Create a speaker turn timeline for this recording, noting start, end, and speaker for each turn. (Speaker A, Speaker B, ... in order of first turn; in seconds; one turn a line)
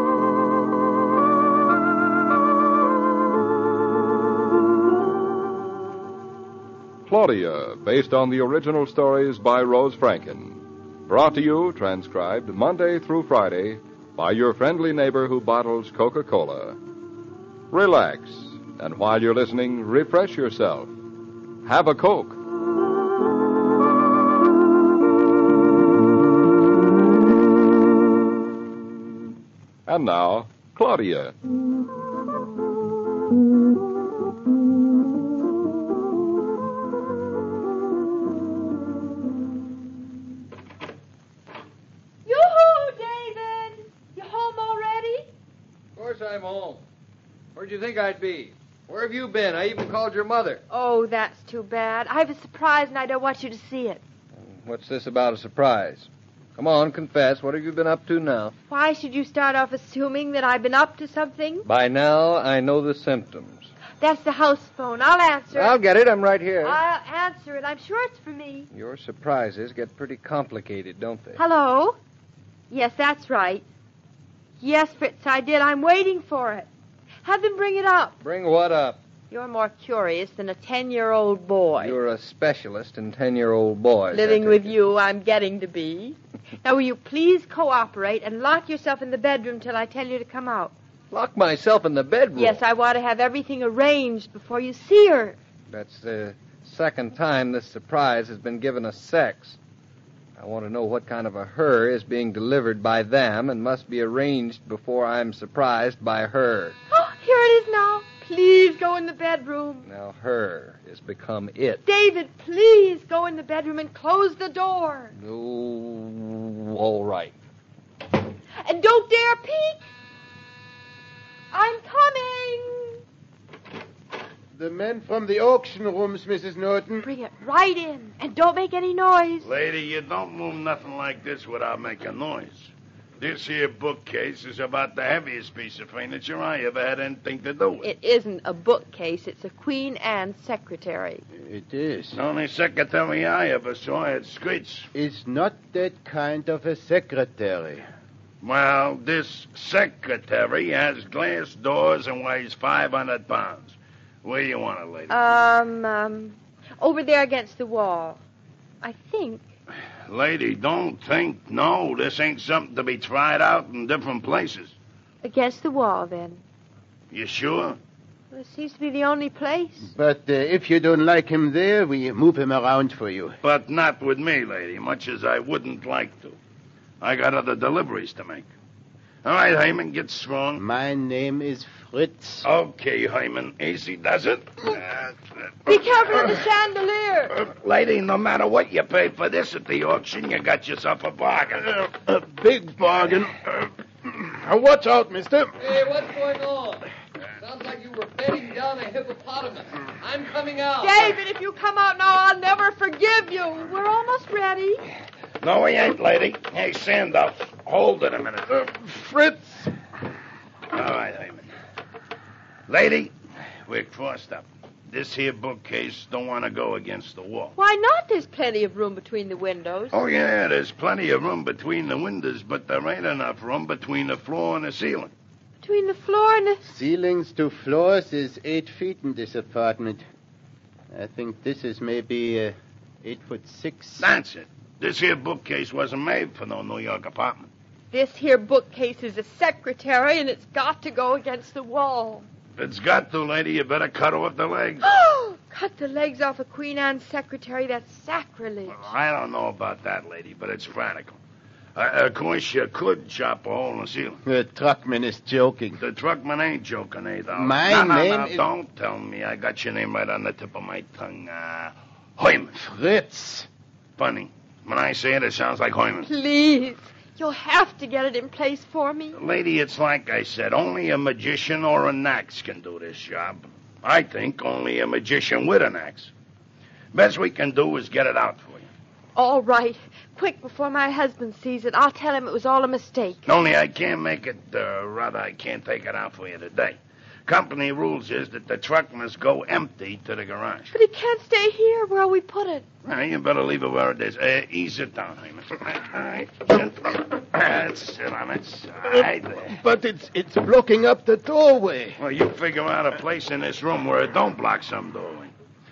Speaker A: 7.1-16.8
Speaker A: 17.7-20.9
Speaker A: 21.6-22.4
Speaker A: 29.9-31.3
Speaker B: 42.2-45.3
Speaker C: 46.0-46.8
Speaker C: 47.5-50.6
Speaker B: 50.7-54.0
Speaker C: 54.4-58.5
Speaker B: 58.7-61.6
Speaker C: 61.6-63.7
Speaker B: 64.0-65.7
Speaker C: 65.5-66.8
Speaker B: 66.6-68.7
Speaker C: 68.7-71.4
Speaker B: 71.4-72.0
Speaker B: 72.7-73.6
Speaker B: 74.6-76.7
Speaker B: 77.2-78.2
Speaker C: 78.2-79.0
Speaker B: 79.3-81.9
Speaker C: 81.8-84.7
Speaker B: 84.1-90.7
Speaker C: 91.1-92.6
Speaker B: 92.4-95.4
Speaker C: 95.7-99.6
Speaker C: 100.4-106.8
Speaker B: 106.9-109.8
Speaker C: 109.8-111.8
Speaker B: 111.8-115.1
Speaker C: 115.2-117.3
Speaker B: 118.6-119.8
Speaker B: 121.5-123.0
Speaker D: 124.5-127.1
Speaker B: 127.0-129.5
Speaker E: 129.4-137.9
Speaker B: 137.8-141.2
Speaker D: 141.4-142.2
Speaker E: 142.1-144.9
Speaker D: 144.9-147.8
Speaker E: 148.4-155.2
Speaker B: 155.1-158.2
Speaker B: 158.8-159.4
Speaker E: 160.1-164.7
Speaker B: 165.2-166.4
Speaker E: 167.1-167.8
Speaker B: 168.3-169.9
Speaker D: 169.9-173.4
Speaker E: 173.4-176.4
Speaker E: 177.0-178.5
Speaker E: 179.2-180.6
Speaker D: 180.6-182.5
Speaker E: 182.4-185.1
Speaker B: 185.7-187.4
Speaker E: 187.3-191.8
Speaker D: 191.8-195.5
Speaker C: 195.6-196.9
Speaker C: 197.4-201.0
Speaker B: 200.8-204.8
Speaker E: 205.4-209.2
Speaker E: 210.7-211.5
Speaker E: 212.7-213.1
Speaker E: 213.6-217.5
Speaker B: 217.6-220.0
Speaker E: 219.9-225.1
Speaker B: 225.6-226.6
Speaker D: 226.6-230.0
Speaker D: 230.9-234.1
Speaker E: 234.0-237.5
Speaker B: 237.9-242.3
Speaker E: 242.6-244.9
Speaker B: 244.8-248.9
Speaker E: 248.7-251.2
Speaker E: 251.7-254.2
Speaker D: 254.2-255.8
Speaker E: 255.8-262.7
Speaker D: 257.3-258.4
Speaker D: 262.7-263.5
Speaker E: 264.0-266.1
Speaker B: 266.1-269.2
Speaker E: 269.1-276.1
Speaker E: 276.9-278.7
Speaker B: 279.1-283.2
Speaker E: 283.2-290.7
Speaker B: 290.7-292.6
Speaker E: 292.8-299.6
Speaker D: 299.5-302.0
Speaker E: 302.0-305.3